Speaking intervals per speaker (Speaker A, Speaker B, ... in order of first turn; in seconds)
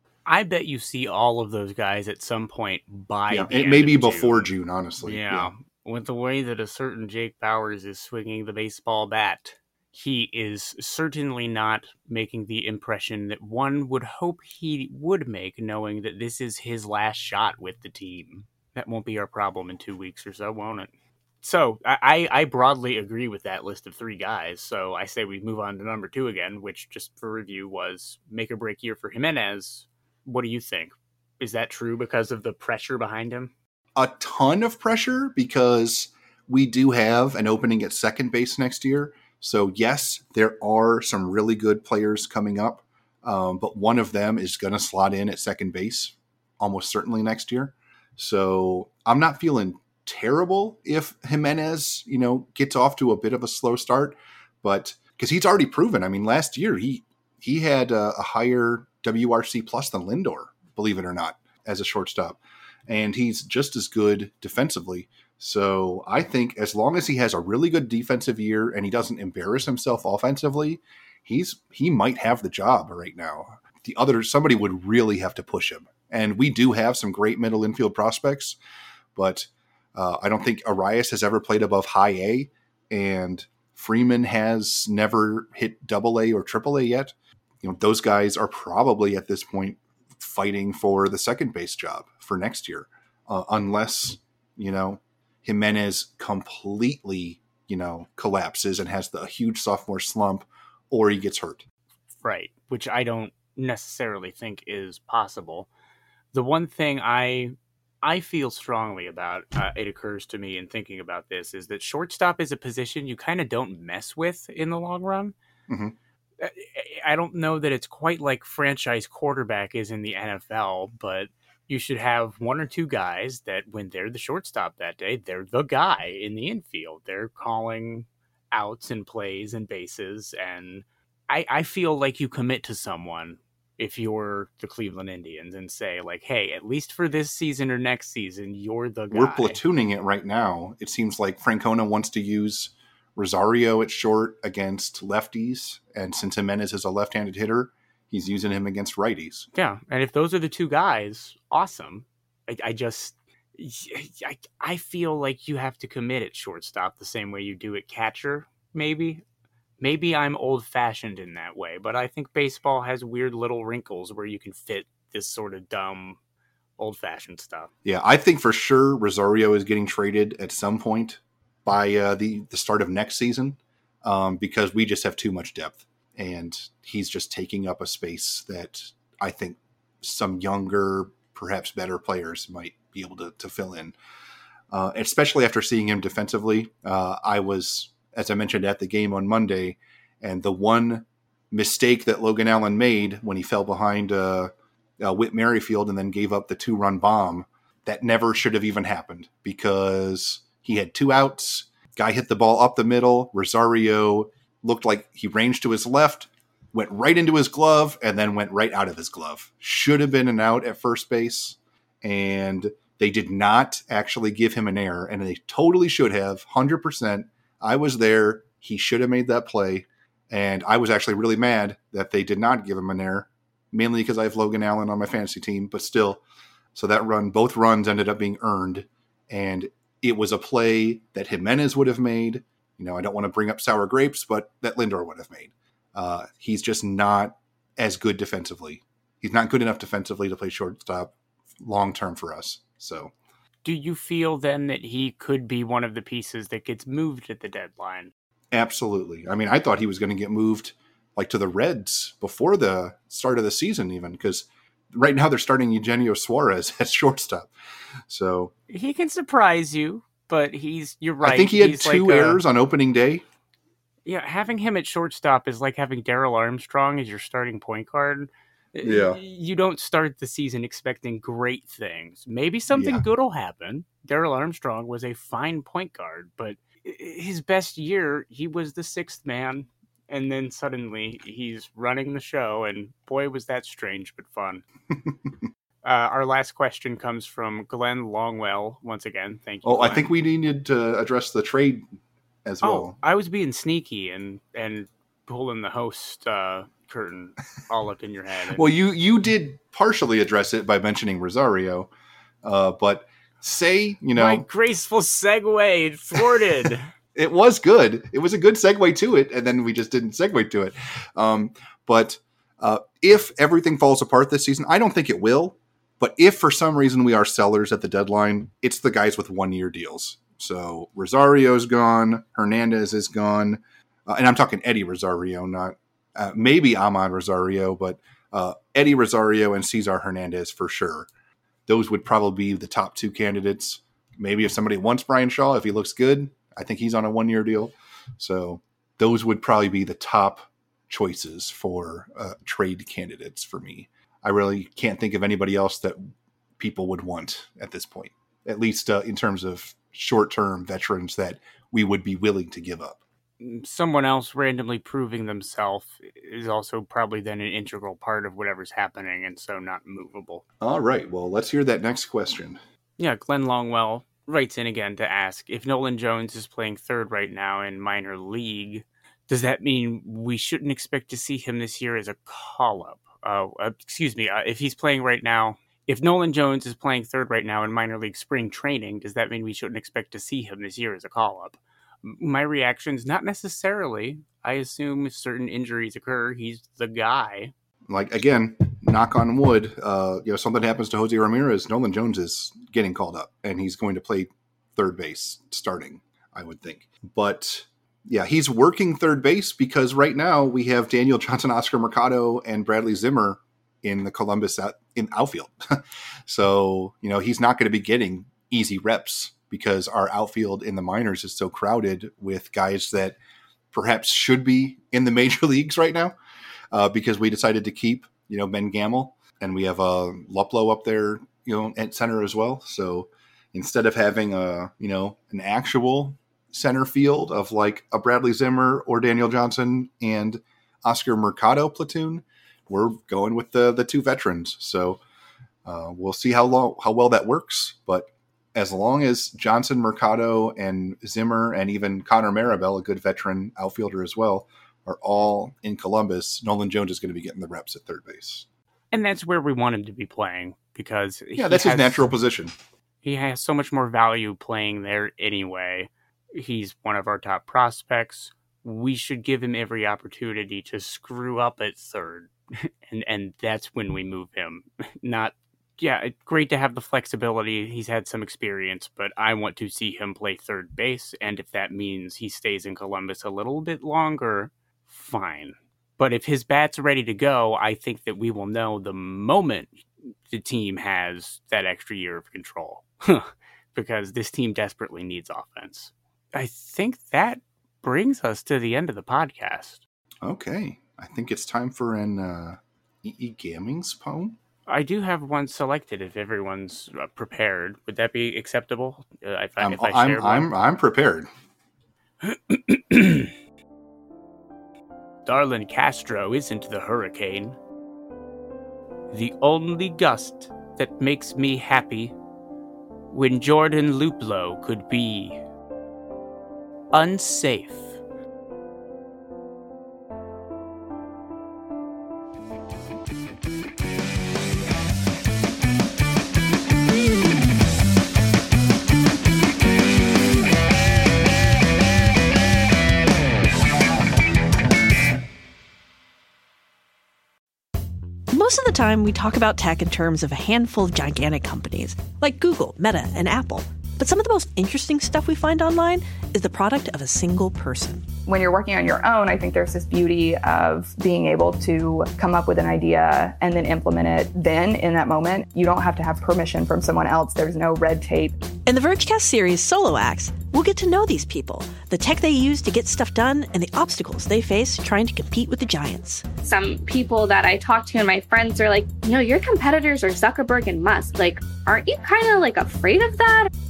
Speaker A: 0.2-33.5, 102.2-105.7, 106.3-115.3, 116.4-139.6, 149.5-159.2, 159.8-166.2, 166.8-167.7, 243.6-248.1, 258.7-262.4, 264.1-284.6, 285.8-290.1, 292.6-298.6, 304.1-306.9, 353.4-360.4, 363.0-387.5, 448.9-452.1, 453.0-489.8, 494.7-500.5, 502.2-503.3, 505.2-507.6, 509.1-512.1, 513.1-515.4, 516.9-518.0
Speaker B: 3.3-5.5, 34.0-78.6, 79.1-101.6, 115.7-115.9, 139.1-149.5, 167.8-183.9, 184.7-226.2, 226.7-243.1, 248.5-257.5, 258.1-258.5, 261.2-263.2, 268.8-269.2, 272.7-273.1, 289.6-291.8, 292.4-292.9, 298.5-301.9, 302.4-304.4, 306.1-331.1, 331.7-346.0, 346.6-353.0, 360.6-362.6, 387.9-413.2, 413.7-416.1, 416.7-435.0, 435.6-448.4, 451.4-452.5, 490.2-494.4, 499.6-501.3
Speaker C: 538.3-548.0, 558.6-566.2
Speaker D: 548.3-558.4
Speaker E: 566.4-573.5